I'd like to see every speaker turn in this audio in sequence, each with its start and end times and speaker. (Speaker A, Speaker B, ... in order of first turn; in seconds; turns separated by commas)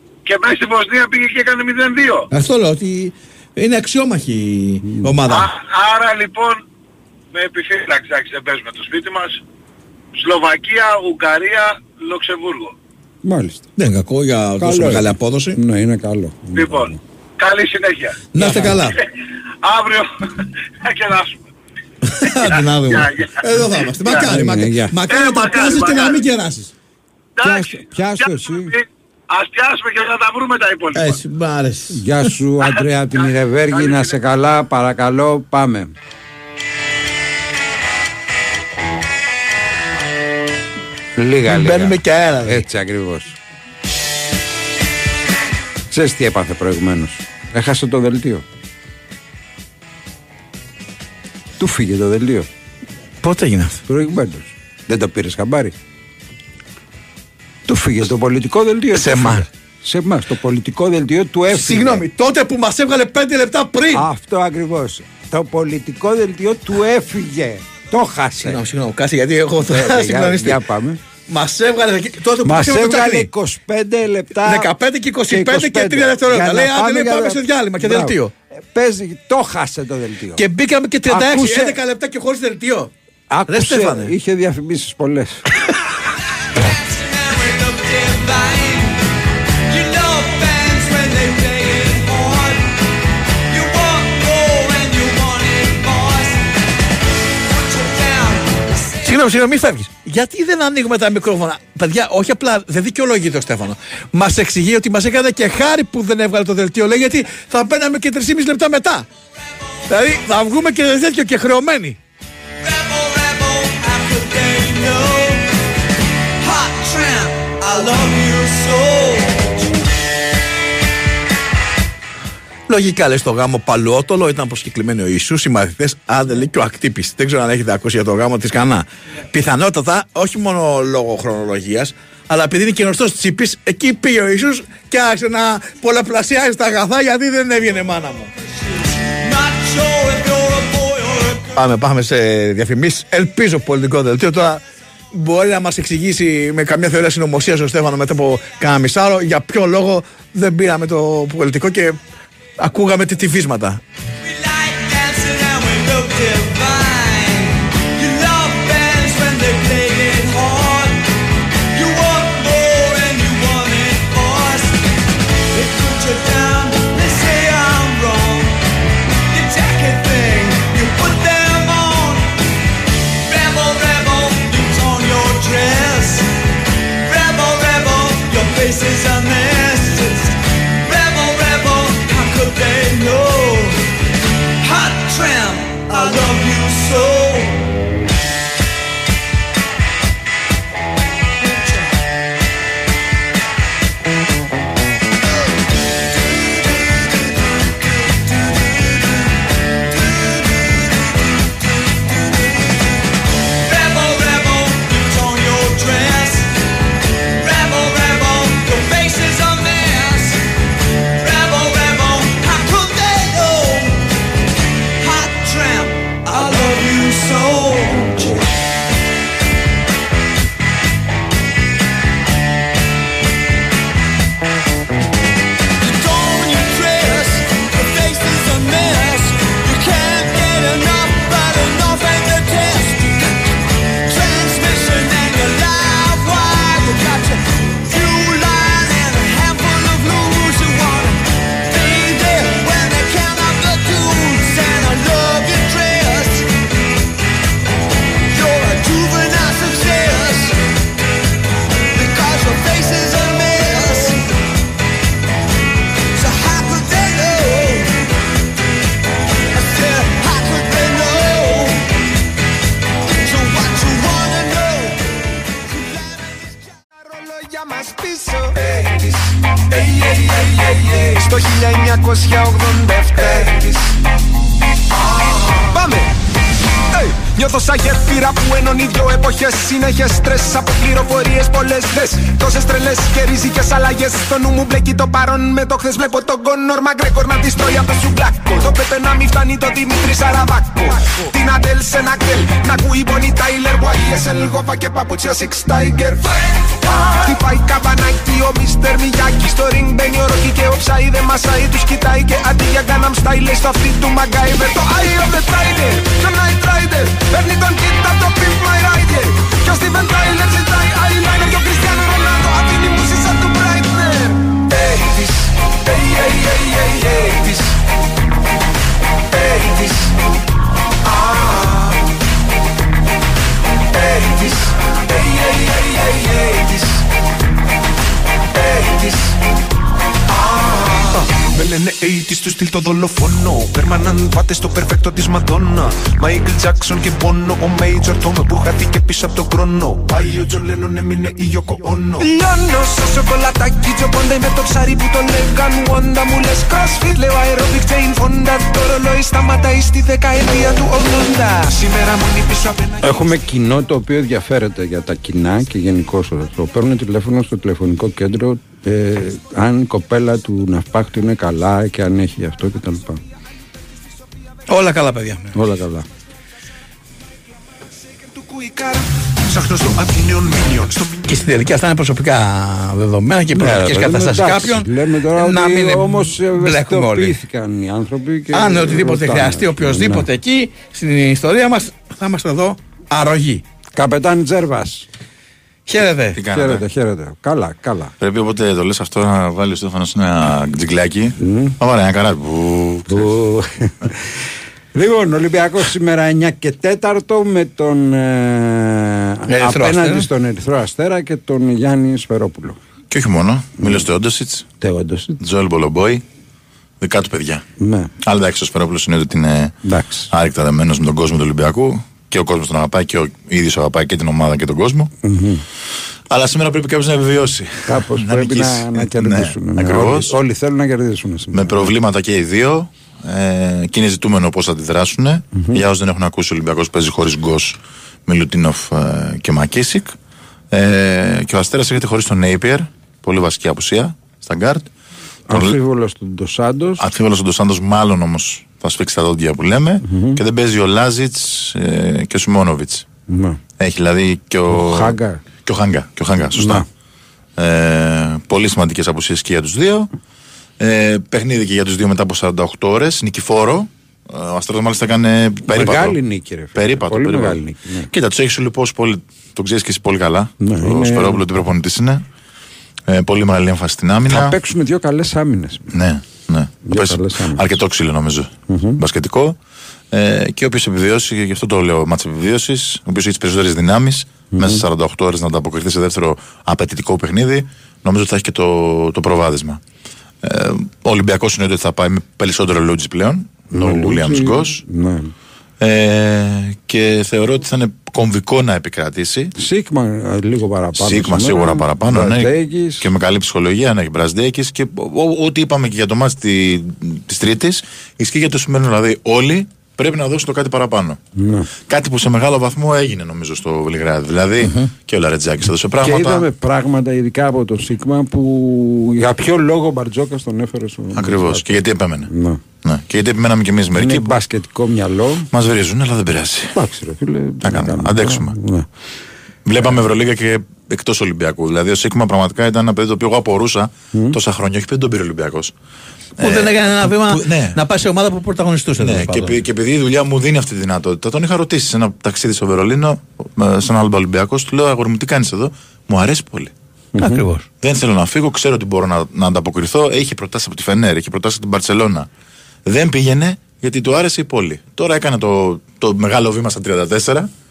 Speaker A: 0.3-2.3, Speaker B: 2.3-5.5, Speaker C: 4.8-5.2, Speaker A: 5.3-6.6, Speaker A: 7.3-9.4, Speaker A: 10.2-12.7, Speaker C: 13.2-13.7, Speaker B: 13.8-15.6, Speaker C: 14.6-17.0, Speaker A: 16.6-18.2, Speaker B: 18.3-19.0, Speaker C: 18.4-18.8, Speaker A: 19.6-20.3, Speaker A: 20.8-21.5, Speaker B: 22.1-26.7, Speaker A: 22.4-24.1, Speaker C: 24.1-25.0, Speaker A: 25.1-26.2, Speaker A: 27.4-31.2, Speaker C: 27.4-28.7, Speaker B: 30.9-32.0, Speaker C: 31.9-35.9, Speaker A: 33.8-34.1, Speaker C: 41.2-43.4, Speaker B: 41.5-42.6, Speaker C: 45.9-48.5, Speaker C: 51.6-52.5, Speaker B: 53.2-53.8, Speaker C: 53.9-55.8, Speaker C: 57.7-62.0, Speaker B: 58.9-59.5, Speaker B: 61.5-64.1, Speaker C: 63.9-68.6, Speaker B: 68.4-70.6, Speaker C: 69.7-71.0, Speaker B: 71.3-73.3, Speaker C: 72.5-74.7, Speaker B: 74.4-78.3, Speaker C: 75.3-80.5, Speaker B: 80.4-82.9, Speaker C: 81.1-81.8, Speaker C: 83.3-85.5, Speaker B: 83.5-84.1, Speaker B: 99.0-109.1, Speaker B: 109.9-112.0, Speaker D: 117.7-118.8, Speaker B: 122.7-138.3, Speaker D: 140.4-140.9, Speaker B: 141.5-152.0, Speaker B: 152.6-153.8, Speaker D: 185.9-186.7, Speaker D: 216.4-217.6, Speaker D: 234.5-236.7, Speaker D: 238.0-241.0, Speaker D: 242.5-245.9, Speaker D: 248.5-250.2, Speaker D: 252.0-254.2, Speaker D: 256.3-257.4, Speaker D: 259.8-261.6, Speaker D: 263.2-264.6, Speaker E: 267.3-268.9, Speaker E: 271.1-273.7, Speaker E: 275.6-276.1, Speaker E: 276.9-296.2, Speaker E: 297.0-314.4, Speaker E: 315.9-317.5, Speaker E: 342.1-353.0, Speaker C: 353.0-363.2, Speaker B: 364.7-365.6, Speaker C: 365.5-366.1, Speaker B: 371.2-377.4, Speaker C: 373.6-380.3, Speaker B: 378.5-383.6, Speaker C: 383.9-385.1, Speaker B: 385.9-386.4, Speaker F: 386.4-386.8, Speaker C: 386.4-388.1, Speaker F: 388.2-393.3, Speaker C: 391.4-391.8, Speaker C: 393.1-394.2, Speaker C: 394.9-402.8, Speaker B: 399.5-400.3, Speaker F: 403.1-404.7, Speaker C: 403.8-404.1, Speaker C: 404.8-405.4, Speaker F: 405.4-406.2, Speaker F: 407.0-407.6, Speaker C: 407.8-408.1, Speaker F: 408.2-409.8, Speaker C: 409.9-410.3, Speaker F: 410.3-415.1, Speaker C: 415.2-415.6, Speaker F: 416.3-420.4, Speaker C: 417.9-421.9, Speaker F: 421.5-430.1, Speaker C: 425.5-425.8, Speaker F: 430.7-434.9, Speaker C: 435.5-437.0, Speaker F: 437.0-443.1, Speaker C: 440.1-440.4, Speaker C: 443.3-443.6, Speaker F: 443.8-446.9, Speaker C: 444.7-445.4, Speaker C: 446.6-446.9, Speaker F: 447.6-450.1, Speaker F: 450.8-456.2, Speaker C: 455.7-458.1, Speaker F: 456.8-462.2, Speaker C: 460.6-461.4, Speaker F: 463.1-464.6, Speaker C: 464.3-465.9, Speaker F: 465.9-469.6, Speaker C: 466.8-467.6, Speaker C: 468.7-469.0, Speaker F: 470.1-479.8, Speaker C: 474.5-474.8, Speaker F: 480.4-484.8, Speaker C: 483.7-485.3, Speaker F: 485.8-489.5, Speaker C: 489.6-493.1, Speaker F: 491.0-501.2, Speaker C: 501.4-501.7, Speaker F: 501.9-506.4, Speaker C: 506.0-512.6, Speaker F: 511.2-512.3, Speaker F: 512.9-514.4, Speaker C: 514.0-515.5, Speaker F: 515.5-516.7, Speaker C: 516.8-518.9, Speaker F: 517.6-518.5, Speaker F: 519.7-525.7, Speaker B: 526.4-529.6, Speaker F: 526.4-527.8, Speaker F: 529.0-536.7, Speaker C: 537.2-537.4, Speaker B: 537.2-537.7, Speaker F: 537.8-542.3, Speaker F: 542.9-547.5